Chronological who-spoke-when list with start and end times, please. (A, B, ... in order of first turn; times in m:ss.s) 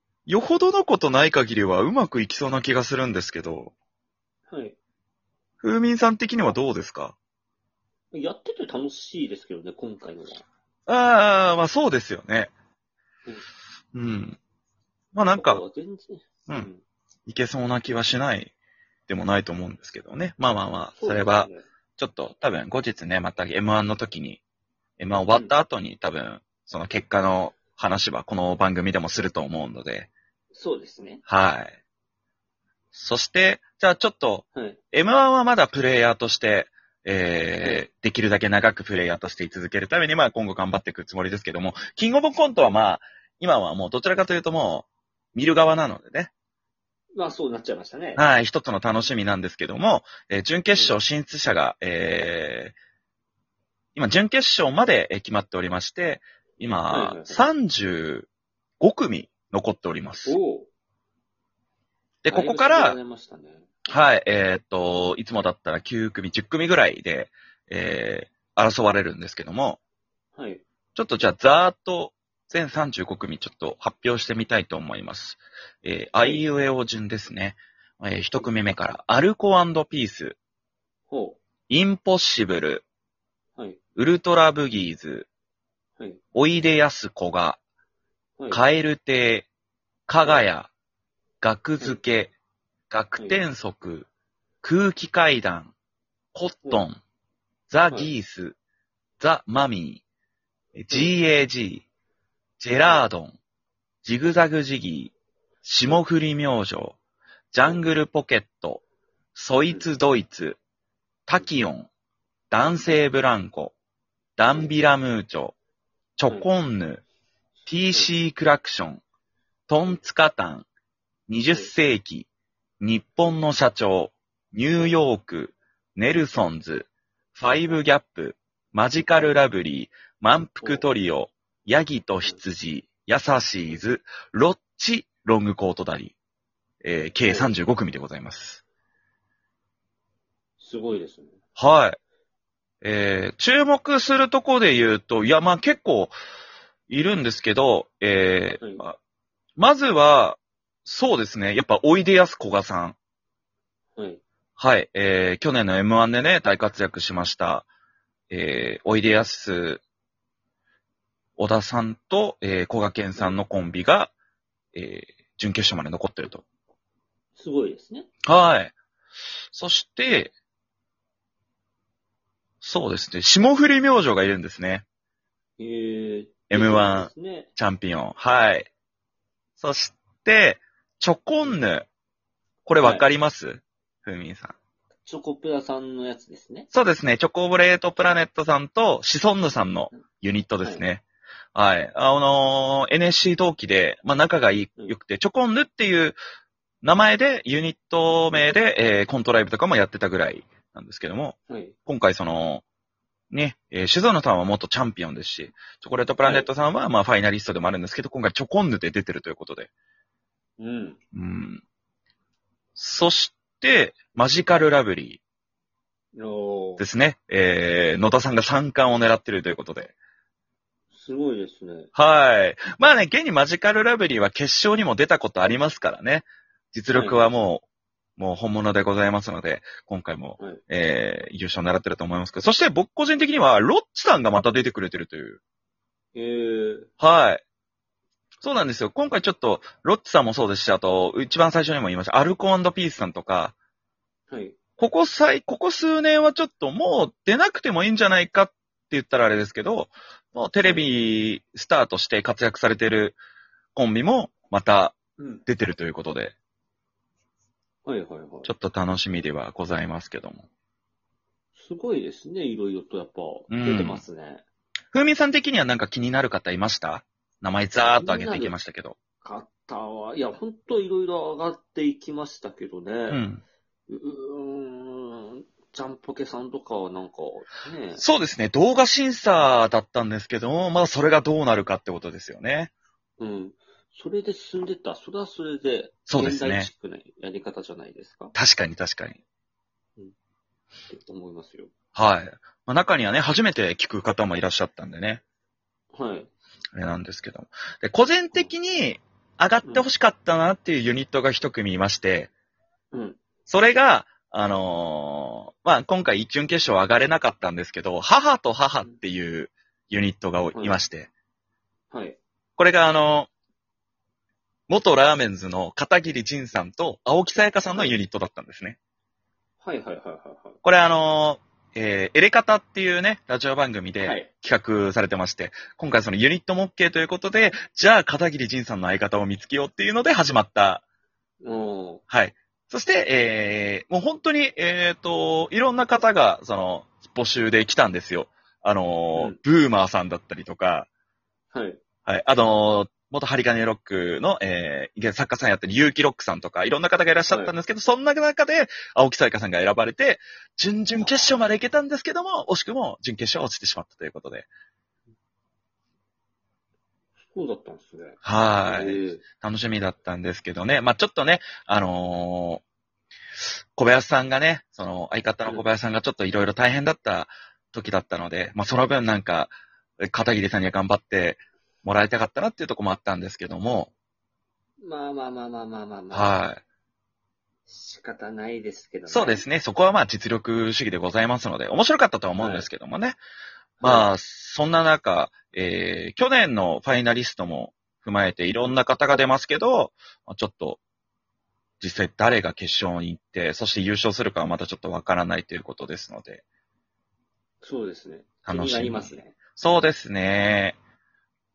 0:00.3-0:03.7 A
0:04.5-0:04.8 B
0:05.6-0:07.1 A
0:08.1-0:10.4 B
0:10.9-0:12.5 A
0:13.9-0:14.4 A
0:15.1-0:15.6 A
0:15.4-0:16.8 B
0:17.3-0:18.5 A
0:19.1-0:24.4 A
0:21.0-0:21.6 B
0:25.0-0:30.1 A
0:30.5-0:31.2 B
0:31.2-0:31.8 A
0:32.9-0:46.3 A
0:34.5-0:34.8 B
0:47.1-0:48.2 B
0:48.2-0:52.8 A
0:53.9-0:58.3 A
0:56.9-0:57.5 B
0:58.8-1:00.4 A
1:00.2-1:00.7 B
1:02.2-1:03.0 A
1:02.3-1:03.7 B
1:03.9-1:09.8 A
1:10.3-1:10.6 B
1:10.9-1:20.4 A
1:21.1-1:21.4 B
1:21.7-1:22.9 A
1:24.0-1:25.3 A
1:26.3-1:27.6 A
1:28.4-1:28.6 B
1:28.5-1:29.5 A
1:30.1-1:30.7 A
1:31.4-1:32.3 A
1:32.9-1:34.1 A
1:33.2-1:33.4 B
1:34.6-1:35.8 A
1:36.3-1:37.0 A
1:37.7-1:38.6 A
1:39.2-1:40.0 A
1:40.8-1:41.8 A
1:40.9-1:41.2 B
1:42.6-1:43.4 A
1:44.0-1:47.0 A
1:47.5-1:48.8 A
1:49.3-1:50.6 A
1:51.3-1:51.9 A
1:52.5-1:53.8 A
1:54.4-1:55.6 A
1:56.2-1:57.0 A
1:57.6-1:59.0 A
1:59.7-2:00.7 A
2:01.3-2:02.3 A
2:02.8-2:16.1 A
2:10.6-2:10.9 B
2:16.8-2:18.6 A
2:17.2-2:17.5 B
2:20.6-2:21.3 B
2:21.6-2:22.0 A
2:22.8-2:26.1 A
2:26.9-2:29.0 A
2:29.6-2:33.0 A
2:34.0-2:34.2 B
2:34.6-2:37.7 A
2:38.3-2:39.8 A
2:41.4-2:44.1 A
2:44.7-2:46.4 A
2:47.4-2:48.1 B
2:48.2-2:48.8 A
2:49.5-2:50.3 A
2:52.6-2:54.8 A
2:55.6-2:57.5 B
2:56.5-2:58.7 A
2:59.6-3:01.9 A
3:02.6-3:04.6 A
3:02.8-3:03.1 B
3:05.0-3:06.7 B
3:06.7-3:11.0 A
3:10.6-3:10.9 B
3:11.5-3:16.2 A
3:16.8-3:22.6 A
3:21.5-3:21.8 B
3:23.3-3:29.7 A
3:26.2-3:26.5 B
3:30.6-3:31.0 B
3:31.1-3:31.6 A
3:32.8-3:35.2 A
3:36.1-3:36.8 B
3:36.8-3:40.0 A
3:40.9-3:41.9 B
3:41.9-3:47.6 A
3:46.9-3:47.3 B
3:48.2-3:55.4 A
3:56.2-3:56.9 B
3:57.0-3:57.4 A
3:58.4-4:03.6 A
4:04.3-4:04.6 B
4:04.8-4:13.2 A
4:10.6-4:11.0 B
4:13.7-4:16.3 A
4:15.2-4:15.4 B
4:17.8-4:18.5 B
4:18.4-4:20.5 A
4:21.6-4:24.4 B
4:23.5-4:24.0 A
4:24.9-4:29.0 A
4:27.8-4:28.6 B
4:29.2-4:33.2 B
4:33.1-4:33.4 A
4:33.9-4:38.0 B
4:38.0-4:42.7 A
4:43.2-4:48.3 B
4:46.1-4:46.7 A
4:48.3-4:49.2 A
4:50.8-4:51.7 B
4:51.9-4:55.2 A
4:55.9-4:56.3 B
4:56.7-5:02.3 A
5:02.9-5:03.2 B
5:03.5-5:11.1 A
5:10.5-5:10.8 B
5:11.9-5:12.2 B
5:12.6-5:13.3 A
5:14.7-5:18.8 A
5:19.6-5:20.6 B
5:20.6-5:30.8 A
5:24.0-5:24.3 B
5:31.4-5:32.0 B
5:32.1-5:40.9 A
5:39.2-5:39.4 B
5:41.5-5:41.8 B
5:42.1-5:54.5 A
5:47.3-5:47.6 B
5:51.0-5:51.4 B
5:57.2-5:59.2 B
5:58.2-6:02.6 A
6:03.7-6:13.9 A
6:14.8-6:16.4 B
6:16.1-6:16.6 A
6:17.7-6:19.4 B
6:19.1-6:23.2 A
6:22.4-6:22.7 B
6:23.8-6:30.8 A
6:23.8-6:24.1 B
6:31.8-6:36.4 A
6:37.6-6:39.4 B
6:38.4-6:40.8 A